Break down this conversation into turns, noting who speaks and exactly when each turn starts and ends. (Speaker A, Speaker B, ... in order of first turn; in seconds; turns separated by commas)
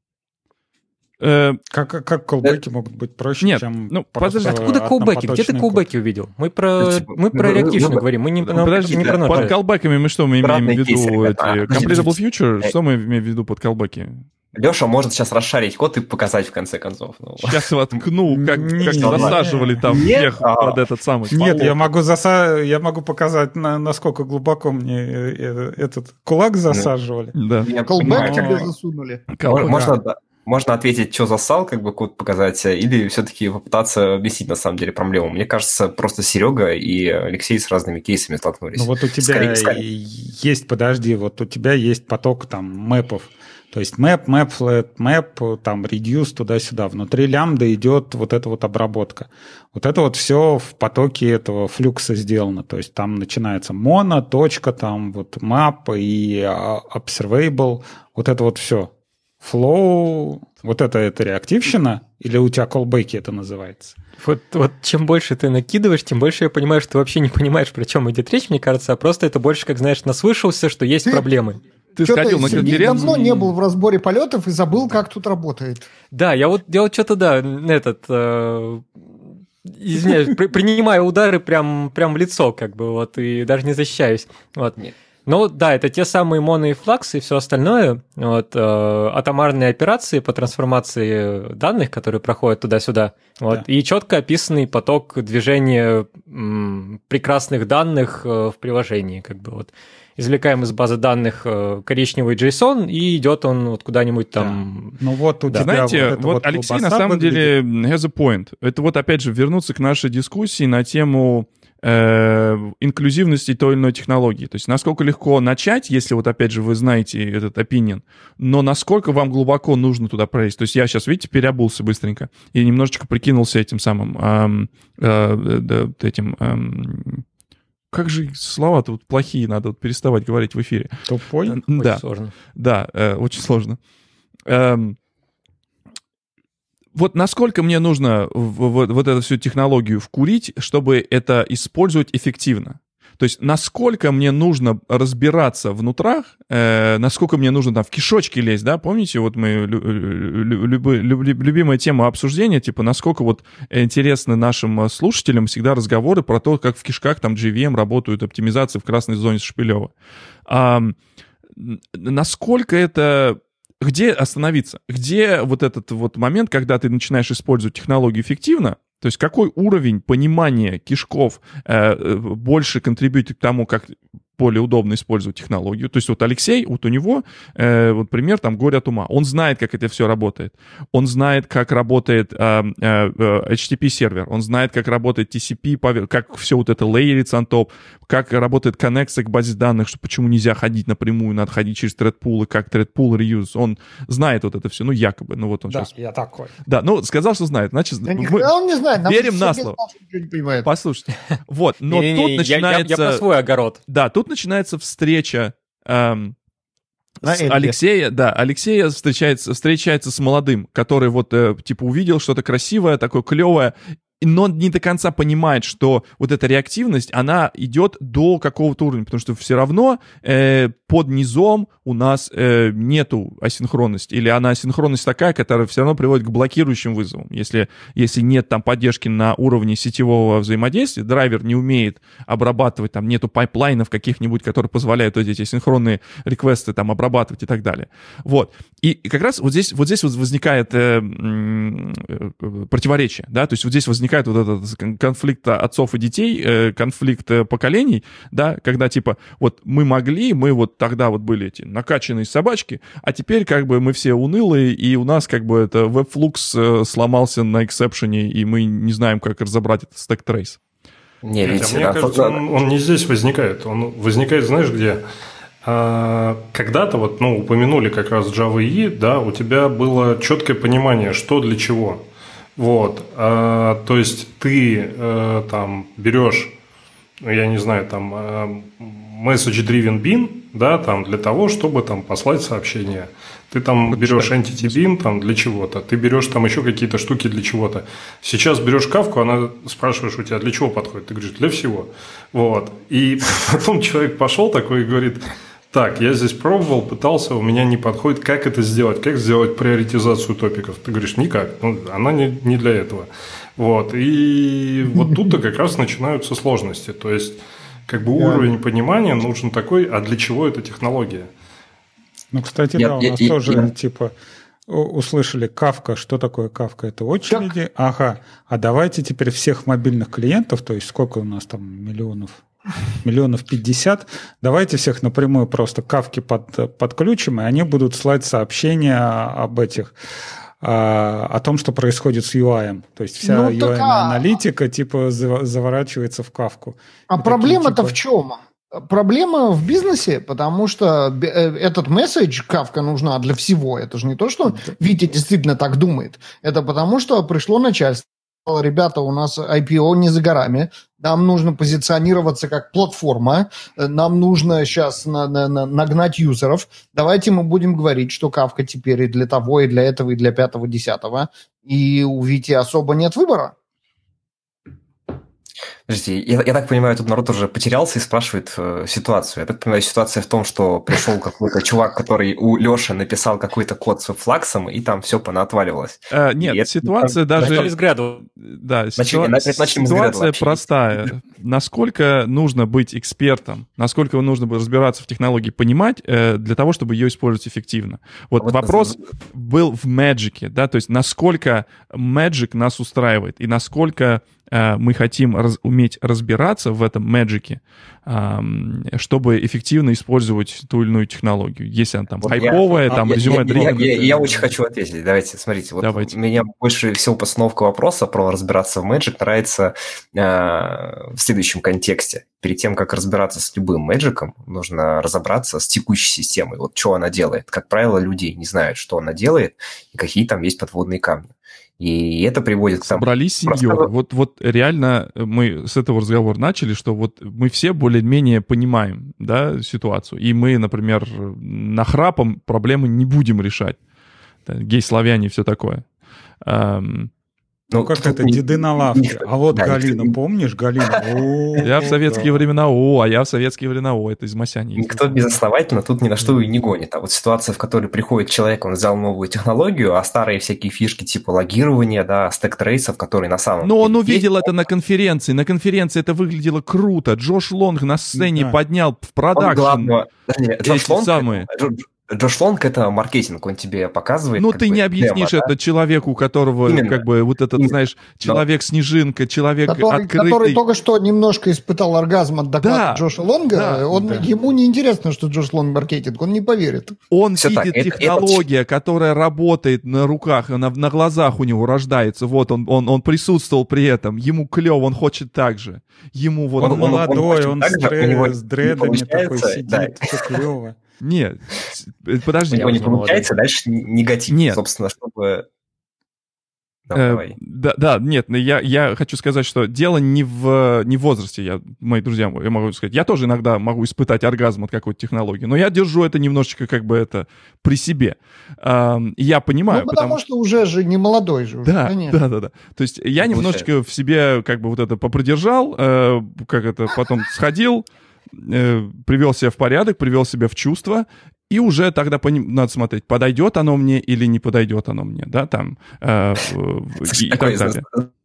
Speaker A: 1.2-1.6, Speaker B: 1.7-5.8, Speaker A: 3.4-4.6, Speaker C: 4.4-9.5, Speaker D: 6.8-9.5, Speaker A: 8.6-14.2, Speaker D: 10.4-12.7, Speaker D: 14.5-17.6, Speaker A: 17.4-21.9, Speaker B: 18.3-20.0, Speaker D: 19.0-20.8, Speaker B: 21.3-27.4, Speaker A: 27.3-28.2, Speaker D: 27.6-28.7, Speaker E: 27.9-29.3, Speaker B: 28.0-28.6, Speaker A: 29.3-29.9, Speaker D: 29.4-39.8, Speaker B: 29.6-29.9, Speaker B: 38.7-64.0, Speaker C: 64.2-71.6, Speaker A: 72.0-73.2, Speaker E: 72.0-75.9, Speaker B: 72.5-73.3, Speaker C: 76.1-78.9, Speaker C: 79.6-105.0, Speaker B: 104.4-107.5, Speaker A: 105.5-127.2, Speaker A: 127.9-130.9, Speaker B: 131.0-131.6, Speaker A: 131.4-133.8, Speaker C: 131.7-132.3, Speaker A: 134.5-135.0, Speaker A: 136.9-159.9, Speaker A: 160.5-160.9, Speaker A: 161.6-195.9, Speaker B: 195.7-196.5, Speaker A: 196.6-198.5, Speaker E: 198.1-200.7, Speaker A: 199.0-199.8, Speaker A: 200.6-203.2, Speaker C: 201.9-203.8, Speaker A: 203.9-206.3, Speaker A: 207.2-260.6, Speaker E: 207.2-207.7, Speaker D: 261.2-262.4, Speaker F: 261.4-265.0, Speaker F: 265.6-272.0, Speaker F: 272.6-276.6, Speaker F: 277.2-311.3, Speaker A: 283.9-284.8, Speaker E: 308.1-308.5, Speaker B: 312.3-314.1, Speaker D: 312.8-313.7, Speaker B: 314.7-322.4, Speaker B: 323.0-329.9, Speaker B: 330.6-338.0, Speaker E: 333.2-334.2, Speaker E: 337.1-363.5, Speaker D: 365.9-377.7, Speaker A: 376.1-377.7, Speaker C: 377.4-378.2, Speaker A: 378.4-404.0, Speaker D: 378.9-380.6, Speaker D: 388.4-389.0, Speaker D: 402.2-423.9, Speaker B: 402.3-404.5, Speaker A: 405.8-406.1, Speaker A: 422.8-433.8, Speaker A: 434.4-435.8, Speaker A: 436.4-437.1, Speaker D: 437.7-440.2, Speaker B: 437.7-442.3, Speaker A: 441.6-445.3, Speaker D: 444.8-454.6, Speaker A: 453.6-459.9, Speaker B: 458.1-458.6, Speaker D: 459.3-465.5, Speaker A: 460.6-461.5, Speaker A: 464.4-470.6, Speaker D: 466.6-467.0, Speaker D: 467.6-468.4, Speaker E: 469.7-476.9, Speaker A: 472.6-473.9, Speaker B: 473.9-474.2, Speaker A: 477.1-487.3, Speaker D: 477.4-478.4, Speaker D: 486.6-490.4, Speaker B: 486.6-490.8, Speaker A: 491.0-493.2, Speaker D: 492.5-495.4, Speaker C: 492.6-493.2, Speaker A: 494.3-494.6, Speaker D: 496.9-497.4, Speaker A: 496.9-510.2, Speaker E: 509.7-512.2, Speaker A: 511.6-517.9, Speaker D: 513.2-513.7, Speaker A: 518.4-527.8, Speaker D: 527.1-528.1